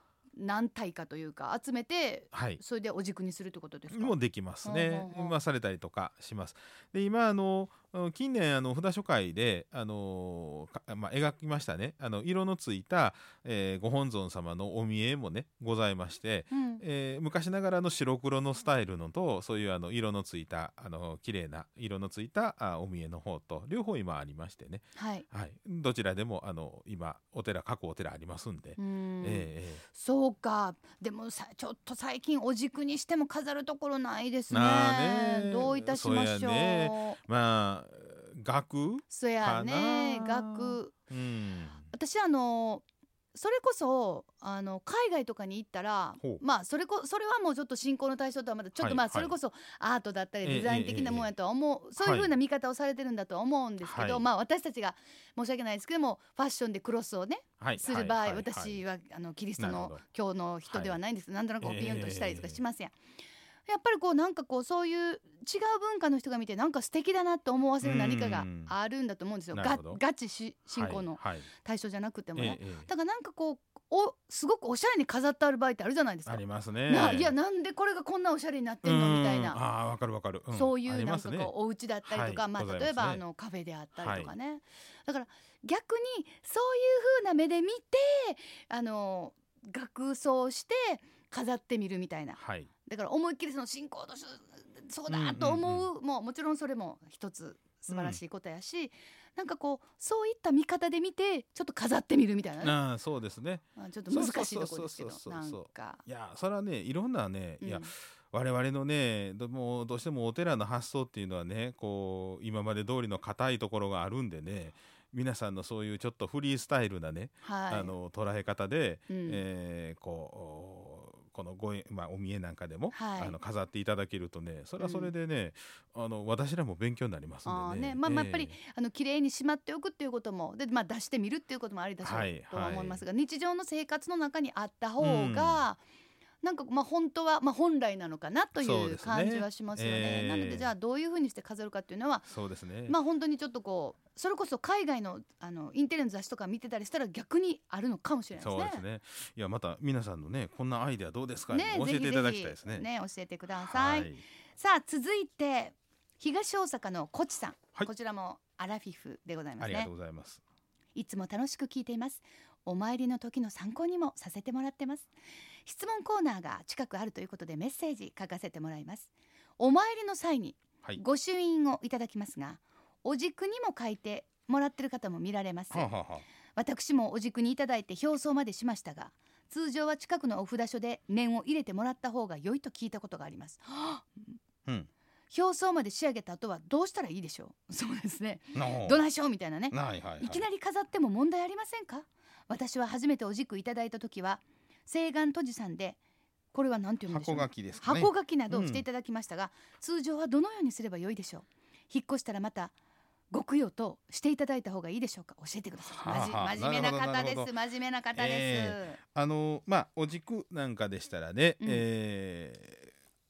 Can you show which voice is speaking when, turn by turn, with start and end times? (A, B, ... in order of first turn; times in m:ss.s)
0:00.4-0:05.4 A
0:02.3-0:02.6 B
0:03.9-0:29.8 B
0:16.5-0:16.8 A
0:25.0-0:25.2 A
0:28.8-0:37.2 A
0:34.5-0:41.8 B
0:39.1-0:40.9 A
0:41.9-1:02.9 A
0:48.8-0:49.3 B
0:50.4-0:51.3 B
0:52.0-0:52.3 B
0:53.8-0:54.2 B
0:57.6-0:58.8 B
0:59.6-1:00.0 B
1:00.7-1:01.0 B
1:01.6-1:02.6 B
1:03.6-1:19.6 A
1:07.8-1:08.7 B
1:09.5-1:10.0 B
1:10.7-1:11.5 B
1:12.4-1:12.9 B
1:16.2-1:17.3 B
1:18.8-1:21.5 B
1:20.5-1:42.7 A
1:22.0-1:23.2 B
1:24.0-1:24.3 B
1:32.4-1:32.7 B
1:35.1-1:35.9 B
1:37.9-1:38.2 B
1:42.6-2:08.5 B
1:43.8-1:46.0 A
1:47.6-1:47.9 A
1:57.4-1:57.9 A
1:59.1-1:59.4 A
2:02.9-2:03.4 A
2:04.8-2:05.1 A
2:07.4-2:15.8 A
2:12.0-2:13.0 B
2:15.0-2:15.6 B
2:16.4-2:22.3 A
2:18.6-2:20.7 B
2:22.3-2:23.0 B
2:22.9-2:28.8 A
2:28.4-2:32.8 B
2:31.5-2:39.9 A
2:33.6-2:34.2 B
2:39.6-2:40.4 B
2:40.9-2:45.1 A
2:45.6-2:55.9 A
2:55.7-2:56.2 B
2:56.5-3:04.3 A
3:05.3-3:16.0 A
3:08.5-3:09.0 B
3:09.7-3:10.4 B
3:16.5-3:22.7 A
3:17.0-3:18.8 B
3:23.3-3:29.0 A
3:26.0-3:27.5 B
3:28.1-3:32.9 B
3:31.6-3:31.8 A